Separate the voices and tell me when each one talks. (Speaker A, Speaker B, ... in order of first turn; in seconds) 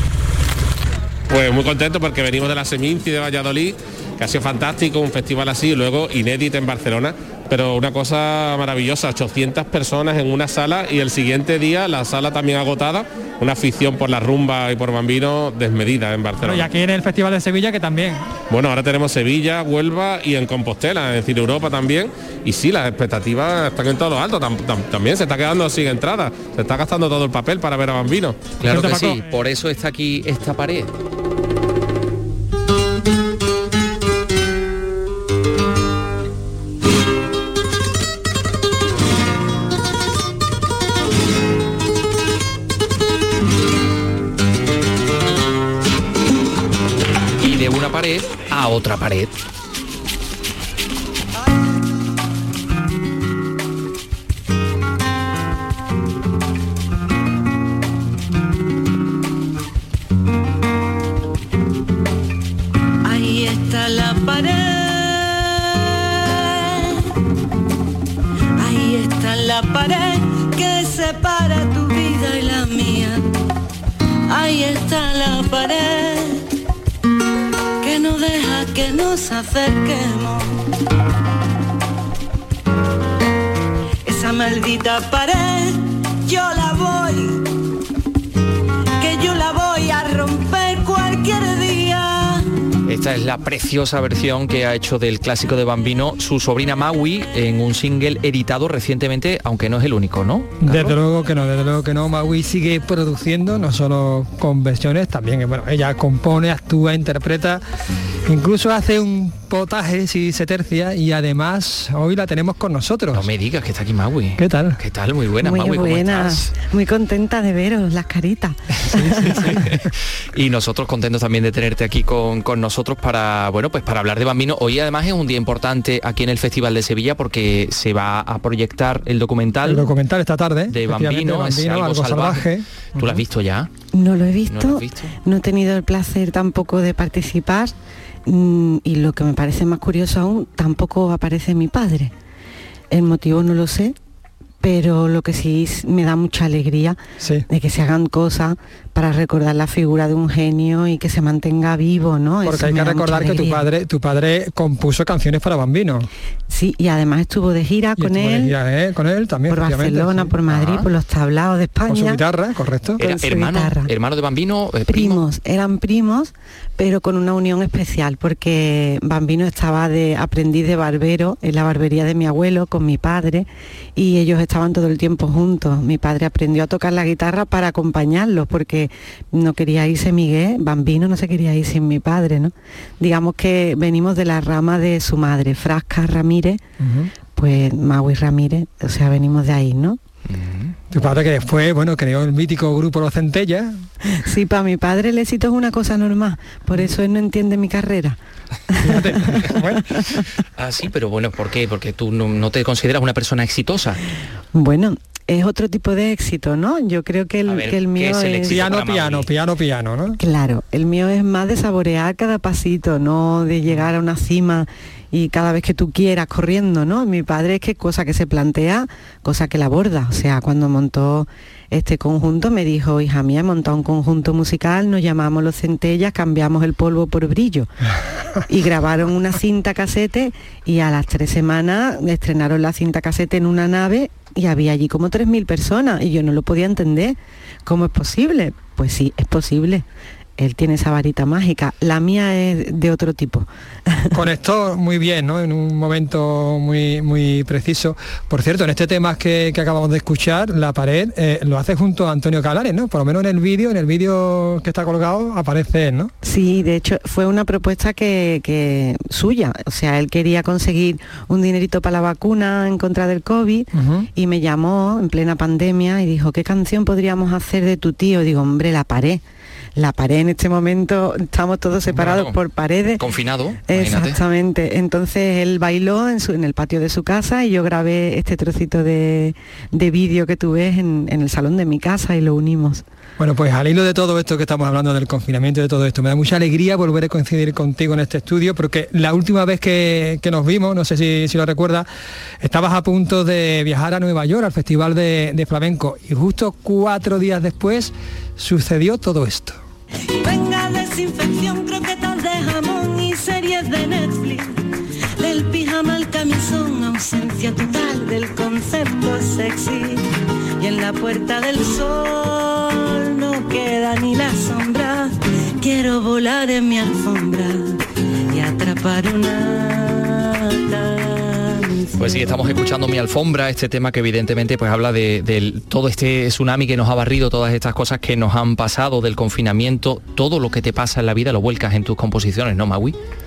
Speaker A: 1.3-16.7, 18.5-28.4
Speaker B: 16.4-18.3, 28.6-29.2, 100.6-107.6, 108.2-113.2, 114.4-114.8, 118.9-119.7, 129.6-133.2, 147.2-147.4, 152.4-156.1, 158.0-160.3, 161.9-163.0, 186.8-187.1, 190.9-193.8, 198.8-199.9, 208.4-210.2, 244.1-256.1, 263.7-264.1, 283.2-291.9, 292.4-299.6
Speaker C: 28.6-30.9, 47.4-49.3, 92.8-101.0, 113.1-116.5, 119.6-129.9, 130.7-133.7, 134.5-135.1, 160.5-160.8, 163.0-165.2, 190.3-190.8, 200.6-204.0, 207.4-209.3, 271.9-272.4, 273.0-274.2, 321.9-332.9
Speaker D: 63.0-67.0, 68.6-73.2, 74.3-76.4, 77.8-80.6, 84.0-87.4, 89.0-92.5, 300.2-304.6, 305.2-310.1, 310.6-322.2
Speaker E: 115.4-119.6, 133.9-137.7, 138.2-142.1, 142.9-143.9, 144.6-153.7, 156.5-158.5, 159.5-162.2, 163.0-163.9, 164.9-186.6, 187.3-190.0, 194.2-198.2, 198.8-199.5, 204.5-208.7, 210.2-227.7, 228.5-239.8, 240.4-244.1, 256.2-269.2, 269.8-273.0, 273.7-282.8